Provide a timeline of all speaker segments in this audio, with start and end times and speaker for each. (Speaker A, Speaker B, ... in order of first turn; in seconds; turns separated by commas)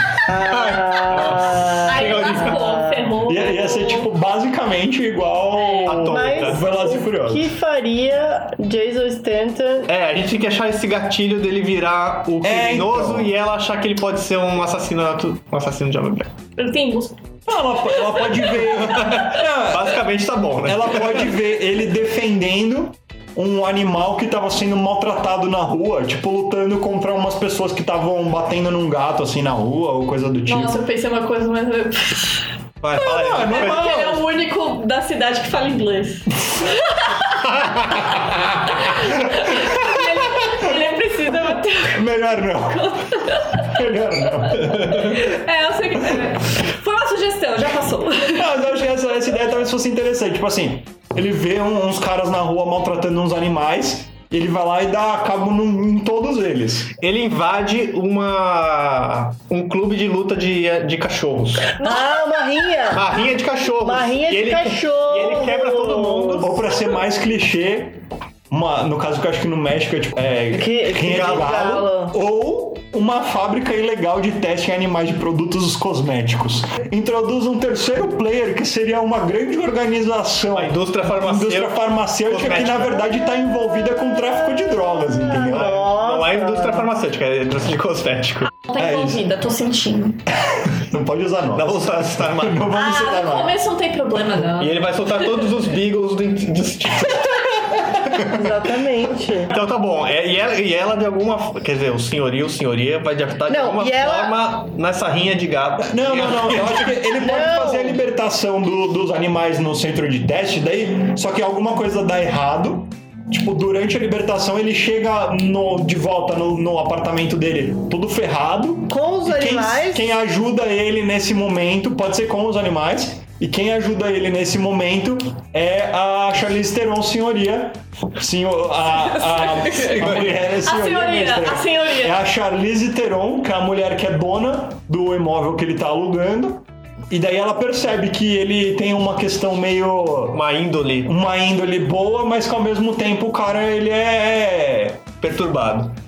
Speaker A: 0.2-3.1, Speaker B: 0.3-2.8, Speaker C: 1.9-4.1, Speaker D: 3.2-7.5, Speaker C: 5.6-5.9, Speaker B: 5.8-6.6, Speaker A: 5.9-9.9, Speaker B: 9.9-16.3, Speaker D: 12.4-13.3, Speaker C: 16.6-17.2, Speaker D: 17.5-20.0, Speaker B: 18.6-21.4, Speaker D: 20.6-30.8, Speaker C: 30.5-32.4, Speaker B: 32.8-33.8, Speaker D: 32.9-34.2, Speaker C: 33.3-38.0, Speaker D: 38.1-40.7, Speaker C: 38.7-43.7, Speaker D: 41.9-45.2, Speaker C: 44.3-48.5, Speaker B: 44.7-45.1, Speaker D: 48.3-56.9, Speaker B: 57.0-61.8, Speaker A: 61.8-63.0, Speaker C: 61.8-62.1, Speaker B: 62.9-66.5, Speaker A: 63.8-66.5, Speaker D: 66.4-85.8, Speaker A: 70.5-72.2, Speaker B: 71.1-71.6, Speaker B: 80.5-83.1, Speaker A: 85.0-86.9, Speaker B: 85.4-88.5, Speaker C: 88.6-90.2, Speaker D: 88.8-89.2, Speaker D: 90.4-93.6, Speaker B: 91.5-92.7, Speaker C: 92.7-95.5, Speaker B: 94.5-98.2, Speaker A: 98.2-99.5, Speaker B: 99.5-107.0, Speaker A: 103.5-104.4, Speaker D: 105.9-140.4, Speaker A: 107.2-108.0, Speaker A: 118.9-120.1, Speaker C: 129.1-132.2, Speaker B: 129.8-130.4, Speaker B: 140.3-141.1, Speaker D: 141.0-145.1, Speaker B: 145.2-145.9